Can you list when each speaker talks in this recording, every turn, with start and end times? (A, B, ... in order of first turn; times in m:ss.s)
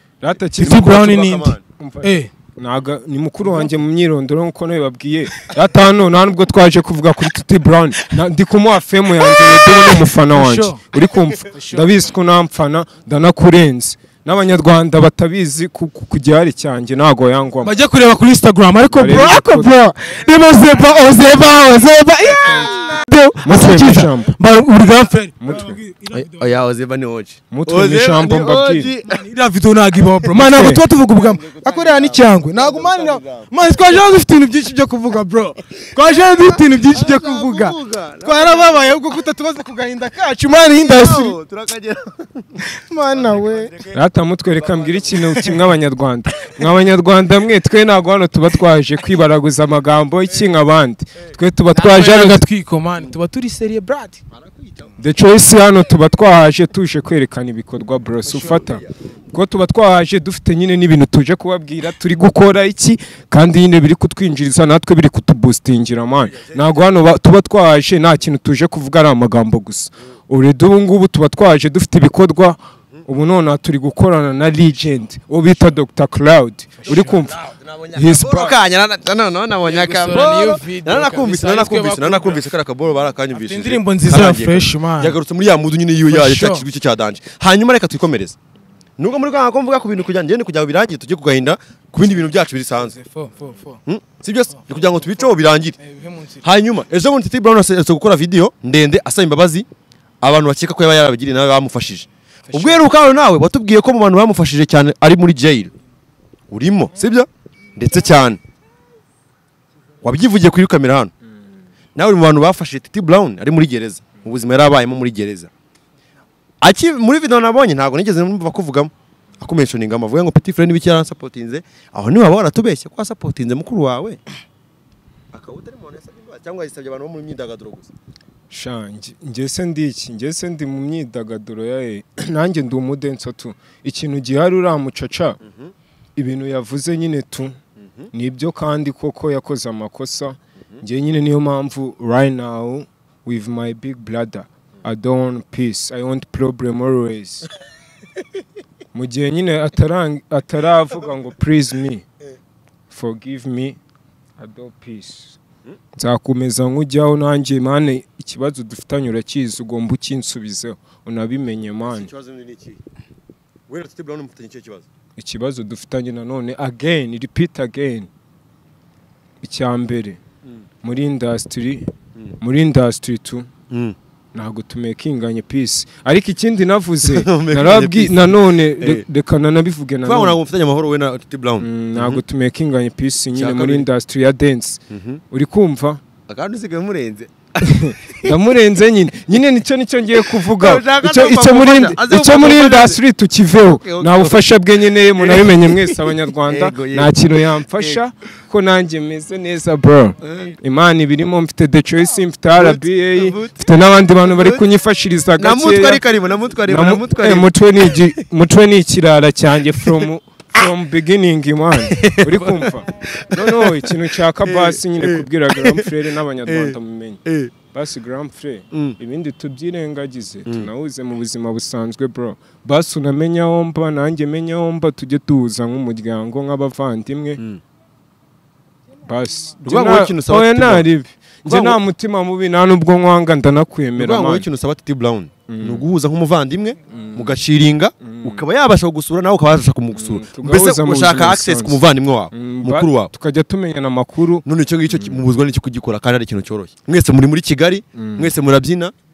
0:00.2-0:01.1 A
0:00.6-0:02.3 B
0:00.6-0:01.6 C
0:01.8-0:17.7 A
0:09.6-0:10.8 B
0:11.5-0:11.9 B
0:17.6-0:26.5 B
0:18.9-0:19.7 A
0:22.3-0:23.0 C
0:23.4-0:24.3 A
0:25.4-0:25.8 A
0:26.1-0:29.2 C
0:27.5-0:28.9 A
0:29.1-0:41.4 B
0:30.3-0:30.8 A
0:31.1-0:33.5 C
0:36.3-0:38.9 C
0:40.8-0:42.6 C
0:42.6-0:43.7 B
0:43.2-0:44.0 C
0:43.9-0:52.4 A
0:44.6-0:45.5 C
0:51.7-0:54.2 B
0:54.3-0:54.9 C
0:55.0-1:17.4 A
0:58.3-0:58.6 B
0:58.4-0:58.9 C
1:06.3-1:06.8 C
1:16.8-1:17.2 B
1:17.2-1:28.4 C
1:18.0-1:18.6 A
1:19.6-1:22.4 B
1:23.3-1:25.2 B
1:26.1-1:26.6 B
1:29.0-1:32.9 C
1:32.8-1:33.8 B
1:33.9-1:35.8 C
1:35.8-1:36.4 B
1:36.4-1:39.7 C
1:40.2-1:45.7 C
1:42.5-1:42.8 B
1:46.5-1:48.4 C
1:50.0-1:51.1 C
1:52.0-1:55.5 C
1:56.6-2:04.2 C
2:05.3-2:07.9 C
2:08.5-2:15.4 A
2:15.4-2:15.7 C
2:16.2-2:17.6 A
2:17.8-2:18.1 C
2:18.1-2:27.5 A
2:28.9-2:32.0 A
2:32.9-2:33.8 A
2:34.4-2:35.4 A
2:36.0-2:42.1 A
2:41.8-2:42.8 C
2:43.7-2:44.9 C
2:45.2-2:48.1 A
2:49.4-2:50.2 A
2:50.8-2:53.5 A
2:53.7-2:54.0 C
2:54.3-3:00.4 A
2:57.0-2:59.0 C
3:00.0-3:02.2 C
3:01.6-3:06.0 A
3:03.4-3:03.9 C
3:04.9-3:05.2 C
3:06.3-3:08.3 C
3:07.6-3:26.1 A
3:10.5-3:13.0 C
3:13.5-3:14.4 C
3:15.1-3:17.2 C
3:17.7-3:18.0 C
3:20.2-3:20.6 C
3:22.5-3:23.5 C
3:24.2-3:24.6 C
3:25.4-3:28.1 C
3:26.6-3:47.4 A
3:31.8-3:35.9 C
3:36.4-3:37.5 C
3:38.7-3:39.0 C
3:49.0-3:54.5 A
3:49.6-3:50.9 C
3:51.5-3:51.8 C
3:54.0-4:03.1 C
3:55.5-3:55.8 A
3:56.9-3:57.4 A
3:58.0-3:58.4 A
4:00.0-4:01.8 A
4:02.3-4:05.2 A
4:04.4-4:08.9 C
4:08.0-4:08.3 A